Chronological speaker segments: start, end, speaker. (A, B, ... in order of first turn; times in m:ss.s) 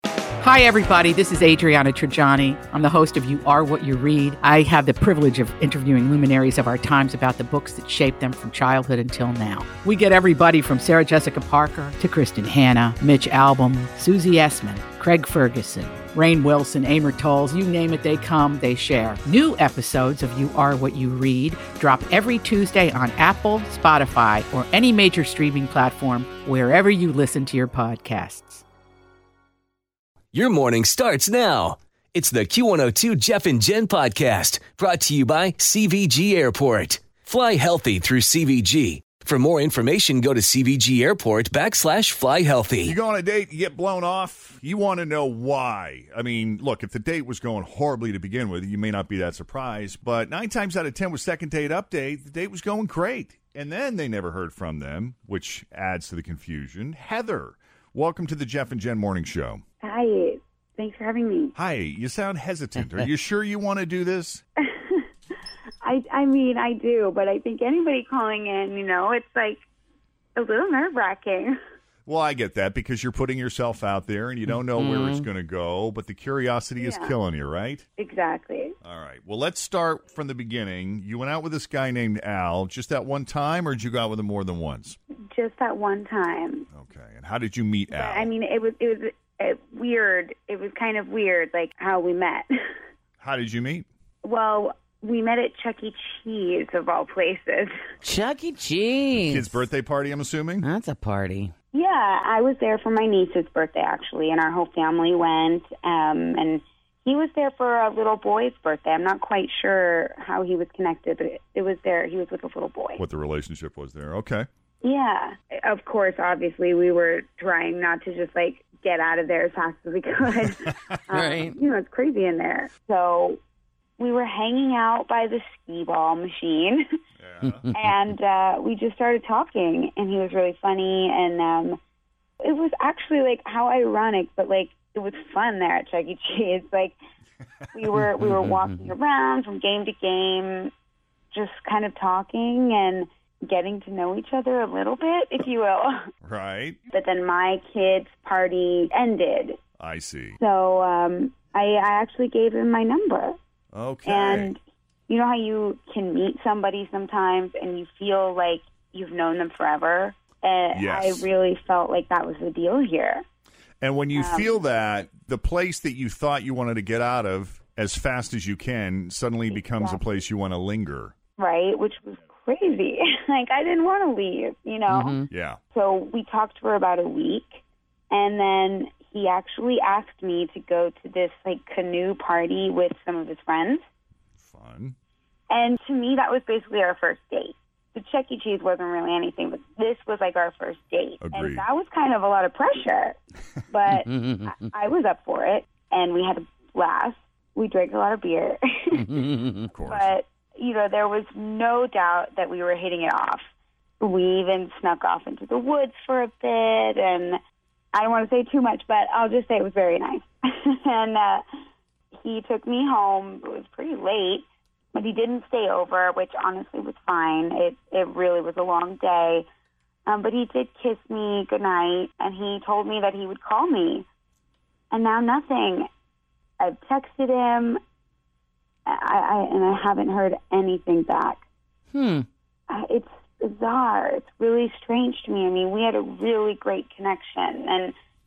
0:00.4-0:28.6 A
0:30.3-0:42.9 B
0:42.8-0:59.6 C
0:59.8-1:01.5 D
1:01.6-1:04.4 C
1:04.6-1:05.0 D
1:05.8-1:09.6 D
1:10.4-1:11.5 D
1:12.0-1:17.8 C
1:14.8-1:15.2 E
1:16.8-1:17.1 D
1:18.0-1:18.7 D
1:18.8-1:25.0 C
1:25.3-1:26.7 D
1:26.7-1:28.3 C
1:27.9-1:32.5 D
1:33.2-1:33.8 C
1:34.2-1:37.7 D
1:38.0-1:39.5 E
1:39.1-1:40.6 C
1:40.6-1:41.5 E
1:41.7-1:53.0 D
1:53.0-1:54.4 C
1:54.8-2:03.4 D
2:01.1-2:01.5 E
2:04.0-2:06.8 D
2:07.2-2:07.6 C
2:07.7-2:11.8 D
2:12.4-2:17.0 D
2:17.7-2:20.7 D
2:18.4-2:18.8 E
2:21.3-2:26.0 D
2:26.2-2:26.8 C
2:26.9-2:29.6 D
2:29.8-2:30.4 C
2:30.4-2:33.4 D
2:33.7-2:34.5 C
2:34.0-2:43.2 D
2:40.7-2:41.3 C
2:43.8-2:51.1 C
2:44.1-2:44.6 D
2:49.5-2:50.0 D
2:51.4-2:55.2 D
2:54.9-2:55.2 E
2:55.3-2:55.6 C
2:55.7-3:03.8 D
3:04.4-3:05.0 C
3:05.5-3:13.2 D
3:11.2-3:11.6 C
3:13.7-3:19.3 D
3:14.1-3:14.4 E
3:19.7-3:20.1 C
3:19.9-3:23.4 D
3:24.0-3:27.4 D
3:27.9-3:31.4 D
3:32.2-3:39.4 D
3:40.1-3:44.0 D
3:44.9-3:45.9 D
3:46.6-3:47.8 D
3:48.9-3:51.4 D
3:51.9-3:52.2 E
3:52.7-3:57.9 D